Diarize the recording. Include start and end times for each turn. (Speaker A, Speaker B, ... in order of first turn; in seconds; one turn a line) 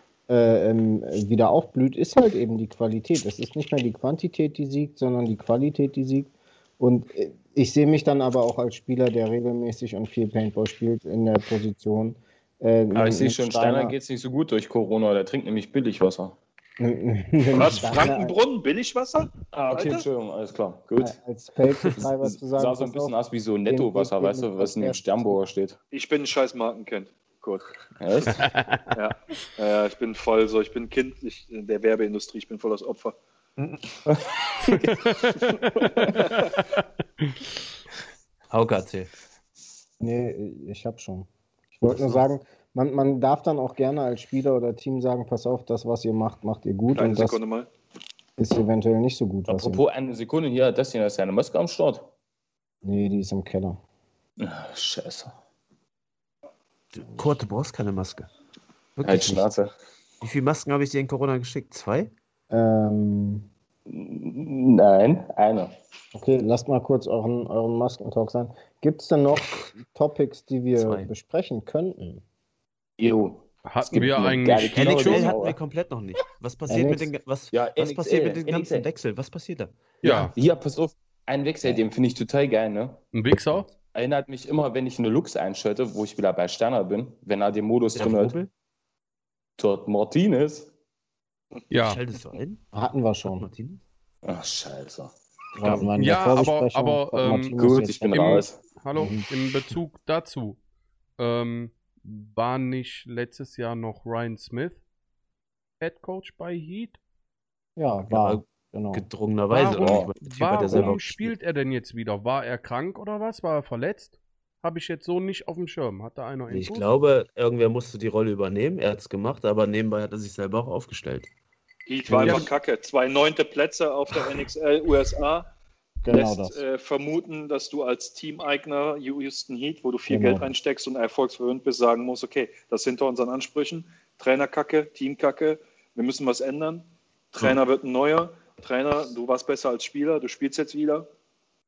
Speaker A: 0.3-13.9
Speaker B: 12.9-16.4
Speaker A: 16.8-18.4
Speaker C: 17.5-20.1
Speaker B: 19.5-21.2
Speaker A: 21.0-23.1
Speaker B: 21.9-25.8
Speaker A: 23.7-25.4
Speaker C: 25.9-27.7
Speaker B: 28.0-28.5
Speaker C: 28.9-33.1
Speaker D: 33.6-33.8
Speaker E: 34.7-36.1
Speaker B: 34.8-35.1
Speaker D: 38.5-39.1
Speaker A: 40.0-47.4
Speaker C: 46.9-47.7
Speaker A: 48.4-49.8
Speaker B: 49.5-52.1
Speaker A: 52.8-53.8
Speaker B: 54.4-55.3
Speaker D: 56.9-58.3
Speaker D: 59.0-59.4
Speaker B: 59.0-59.7
Speaker D: 60.2-62.1
Speaker A: 62.5-63.5
Speaker B: 63.9-65.7
Speaker A: 66.1-72.2
Speaker D: 70.8-71.1
Speaker B: 73.0-75.6
Speaker E: 73.7-75.3
Speaker A: 74.0-74.5
Speaker D: 74.5-80.0
Speaker A: 76.7-77.1
Speaker B: 77.5-78.9
Speaker E: 80.0-80.3
Speaker B: 80.0-83.1
Speaker E: 83.1-83.7
Speaker B: 83.9-88.4
Speaker D: 87.9-88.5
Speaker B: 89.6-90.7
Speaker E: 91.7-92.0
Speaker D: 91.7-92.6
Speaker A: 92.7-93.5
Speaker D: 93.2-93.8
Speaker B: 94.2-95.1
Speaker A: 95.5-98.4
Speaker E: 95.6-100.6
Speaker B: 97.5-98.6
Speaker A: 99.0-99.2
Speaker E: 101.2-104.8
Speaker E: 105.8-107.0
Speaker A: 107.8-109.0
Speaker D: 108.1-111.3
Speaker E: 109.5-116.9
Speaker B: 109.7-110.1
Speaker D: 116.5-121.3
Speaker C: 121.9-125.5
Speaker A: 122.1-122.5
Speaker E: 122.2-122.5
Speaker A: 126.0-126.6
Speaker C: 126.1-141.1
Speaker A: 130.1-130.5